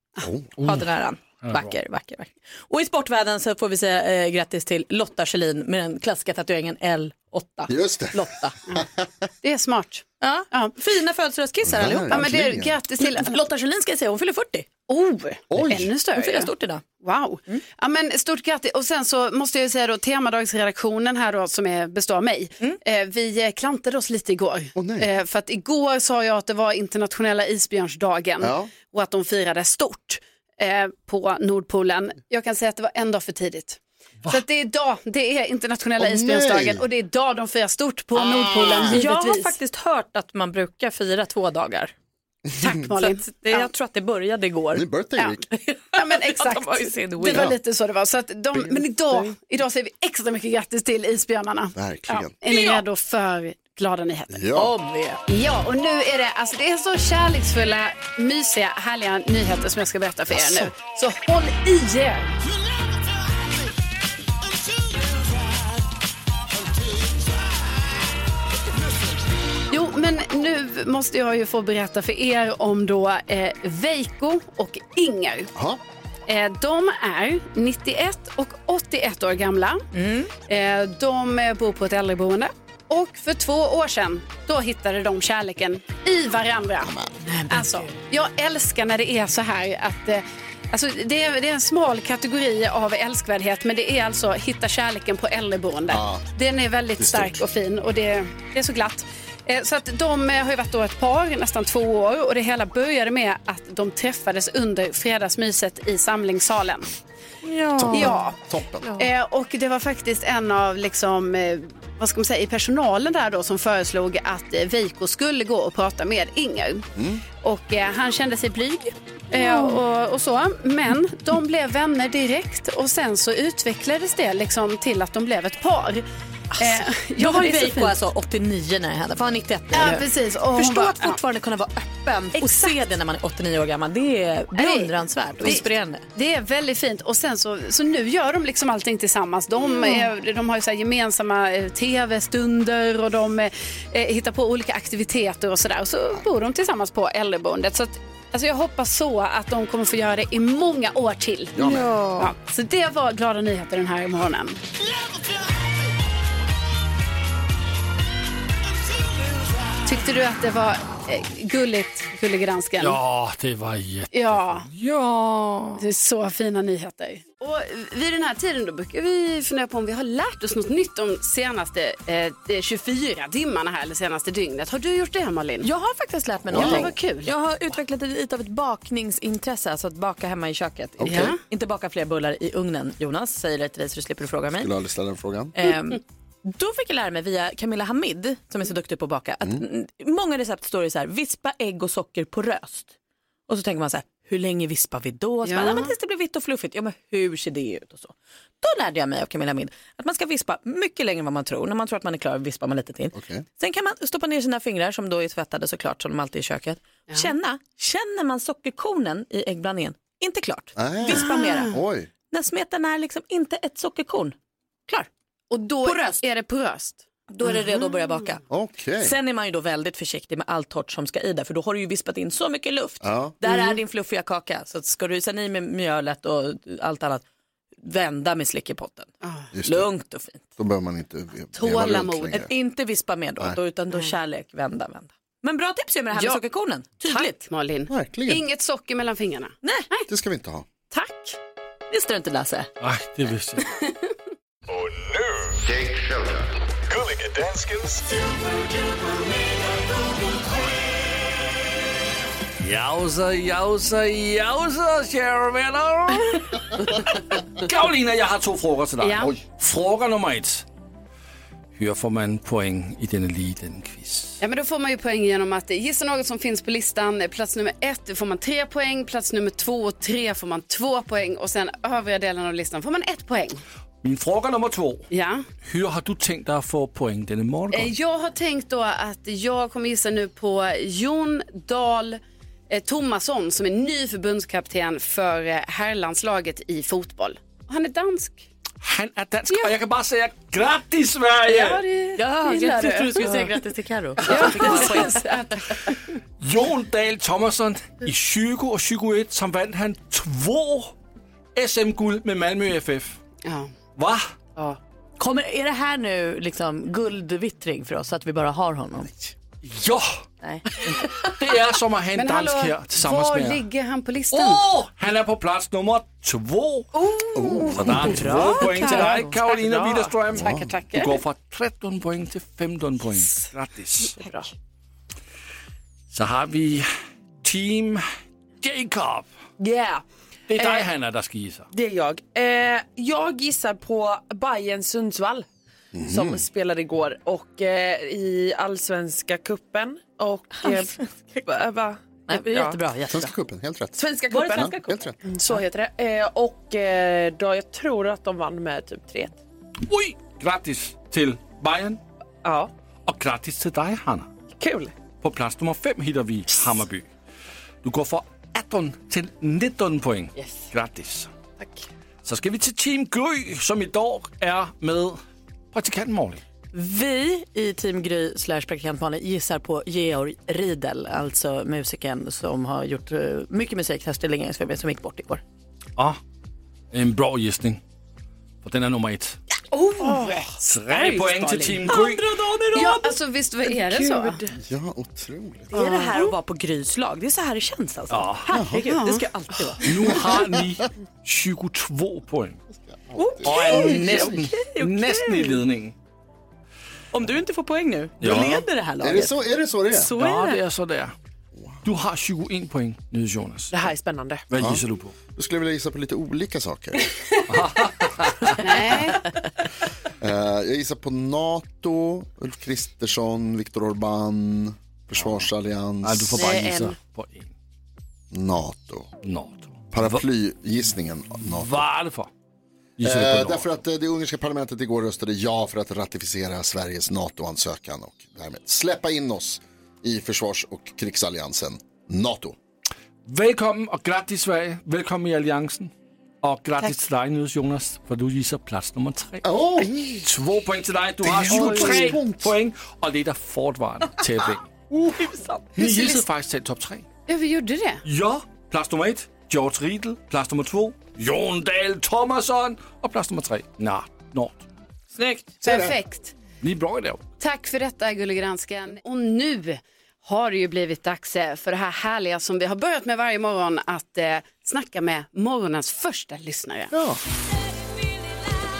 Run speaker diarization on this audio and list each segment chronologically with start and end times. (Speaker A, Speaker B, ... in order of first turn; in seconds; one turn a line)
Speaker A: 0.2-0.5
Speaker B: 0.6-8.6
Speaker C: 1.4-1.7
Speaker A: 7.7-9.1
Speaker D: 9.4-10.7
Speaker B: 10.2-12.3
Speaker A: 11.7-12.7
Speaker D: 12.1-13.4
Speaker B: 13.0-14.7
Speaker D: 14.9-39.5
Speaker A: 15.5-15.9
Speaker B: 16.1-16.8
Speaker A: 24.7-25.1
Speaker A: 28.4-28.7
Speaker A: 36.0-36.8
Speaker A: 38.1-39.0
Speaker B: 38.9-41.9
Speaker D: 42.6-43.7
Speaker B: 42.9-44.8
Speaker A: 44.7-45.4
Speaker B: 45.5-47.5
Speaker D: 45.9-54.4
Speaker A: 47.2-47.6
Speaker A: 51.7-52.3
Speaker B: 52.5-52.8
Speaker A: 54.3-54.7
Speaker B: 54.5-55.2
Speaker D: 55.3-62.4
Speaker A: 60.3-60.7
Speaker D: 69.7-75.5
Speaker A: 75.5-75.8
Speaker D: 76.3-79.8
Speaker B: 79.9-80.3
Speaker D: 80.5-86.9
Speaker A: 86.8-87.2
Speaker B: 87.2-87.9
Speaker D: 87.5-106.9
Speaker A: 95.9-96.2
Speaker A: 97.0-97.4
Speaker A: 107.8-109.0
Speaker D: 107.9-108.4
Speaker D: 108.9-116.9
Speaker A: 117.0-117.2
Speaker D: 117.4-126.0
Speaker B: 126.5-136.1
Speaker D: 126.6-127.9
Speaker D: 129.7-131.2
Speaker D: 132.4-132.8
Speaker D: 134.6-154.6
Speaker B: 139.6-140.0
Speaker A: 151.6-151.9
Speaker E: 151.7-152.3
Speaker D: 159.8-163.0
Speaker C: 162.8-165.8
Speaker D: 164.1-164.7
Speaker D: 165.8-175.7
Speaker B: 175.6-184.7
Speaker A: 176.5-176.9
Speaker D: 176.5-177.3
Speaker A: 181.0-181.3
Speaker D: 181.0-181.4
Speaker A: 184.6-185.6
Speaker B: 185.5-192.9
Speaker B: 193.5-211.8
Speaker D: 195.4-195.9
Speaker A: 203.1-203.4
Speaker A: 210.8-212.1
Speaker D: 211.1-211.7
Speaker B: 212.3-214.3
Speaker D: 215.5-218.3
Speaker B: 215.8-216.2
Speaker B: 217.3-218.4
Speaker A: 218.5-219.1
Speaker B: 219.0-227.2
Speaker A: 223.0-223.3
Speaker D: 223.4-223.8
Speaker B: 227.8-229.1
Speaker D: 229.2-229.5
Speaker A: 229.5-229.9
Speaker B: 229.6-230.4
Speaker A: 230.6-232.5
Speaker D: 231.5-232.4
Speaker B: 232.3-237.4
Speaker D: 236.1-236.4
Speaker D: 237.0-240.1
Speaker A: 237.9-238.4
Speaker A: 240.1-240.6
Speaker D: 240.9-241.4
Speaker B: 241.9-242.7
Speaker C: 242.8-243.7
Speaker D: 243.8-244.1
Speaker C: 252.6-260.6
Speaker D: 259.0-259.3
Speaker C: 261.7-264.4
Speaker D: 264.4-273.6
Speaker C: 274.0-275.1
Speaker D: 275.1-275.4
Speaker C: 275.6-277.9
Speaker D: 277.7-288.5
Speaker C: 288.8-291.8
Speaker D: 289.5-289.8
Speaker D: 291.5-293.5
Speaker B: 292.1-295.2
Speaker C: 294.3-295.2
Speaker D: 294.3-295.9
Speaker C: 296.4-300.9
Speaker C: 301.5-303.2
Speaker D: 303.4-303.7
Speaker C: 304.0-304.2
Speaker B: 305.2-309.3
Speaker C: 309.6-310.1
Speaker B: 310.4-311.3
Speaker C: 310.8-313.6
Speaker D: 312.1-314.7
Speaker C: 314.3-316.9
Speaker A: 317.3-318.3
Speaker B: 317.6-319.4
Speaker C: 317.7-324.2
Speaker E: 318.6-320.1
Speaker A: 320.3-320.7
Speaker D: 320.4-321.2
Speaker C: 326.1-326.9
Speaker C: 327.4-328.0
Speaker C: 328.6-329.3
Speaker E: 329.6-330.0
Speaker C: 330.5-331.7
Speaker E: 331.7-335.4
Speaker A: 335.9-336.4
Speaker E: 336.1-342.8
Speaker B: 340.6-341.4
Speaker B: 342.3-343.3
Speaker A: 343.1-345.2
Speaker E: 343.9-349.3
Speaker B: 344.3-345.6
Speaker C: 349.9-352.0
Speaker E: 352.4-352.7
Speaker C: 353.1-354.3
Speaker E: 354.6-354.9
Speaker C: 355.2-357.1
Speaker C: 357.8-361.3
Speaker C: 362.2-365.2
Speaker C: 365.7-366.4
Speaker B: 366.7-375.4
Speaker C: 376.9-377.8
Speaker C: 378.6-379.4
Speaker D: 379.7-382.0
Speaker E: 380.0-380.4
Speaker C: 380.6-382.3
Speaker B: 381.9-383.1
Speaker D: 382.7-384.4
Speaker B: 383.9-384.3
Speaker A: 384.6-385.7
Speaker B: 385.7-389.9
Speaker D: 385.7-386.3
Speaker C: 388.1-388.5
Speaker A: 388.5-388.8
Speaker D: 388.9-389.2
Speaker C: 389.8-392.6
Speaker A: 392.9-394.0
Speaker B: 393.2-395.6
Speaker C: 393.4-395.9
Speaker B: 397.1-399.4
Speaker C: 398.2-398.6
Speaker A: 399.0-400.1
Speaker B: 399.9-400.6
Speaker C: 400.1-401.1
Speaker A: 401.6-401.8
Speaker C: 401.8-403.8
Speaker E: 403.7-404.4
Speaker C: 404.5-405.1
Speaker A: 405.3-407.1
Speaker C: 407.5-408.6
Speaker D: 408.6-409.2
Speaker A: 410.2-416.6
Speaker C: 416.0-417.5
Speaker A: 418.3-419.1
Speaker C: 419.2-420.2
Speaker A: 419.9-421.8
Speaker C: 421.5-422.3
Speaker C: 423.0-423.8
Speaker A: 423.0-432.6
Speaker C: 433.3-439.4
Speaker A: 439.4-440.1
Speaker C: 440.2-445.1
Speaker A: 441.2-442.5
Speaker B: 441.6-442.1
Speaker B: 445.2-445.5
Speaker C: 445.8-447.0
Speaker D: 445.8-446.2
Speaker D: 447.3-448.0
Speaker C: 448.0-454.6
Speaker B: 455.1-455.4
Speaker D: 455.6-456.3
Speaker C: 456.6-457.2
Speaker D: 457.4-466.9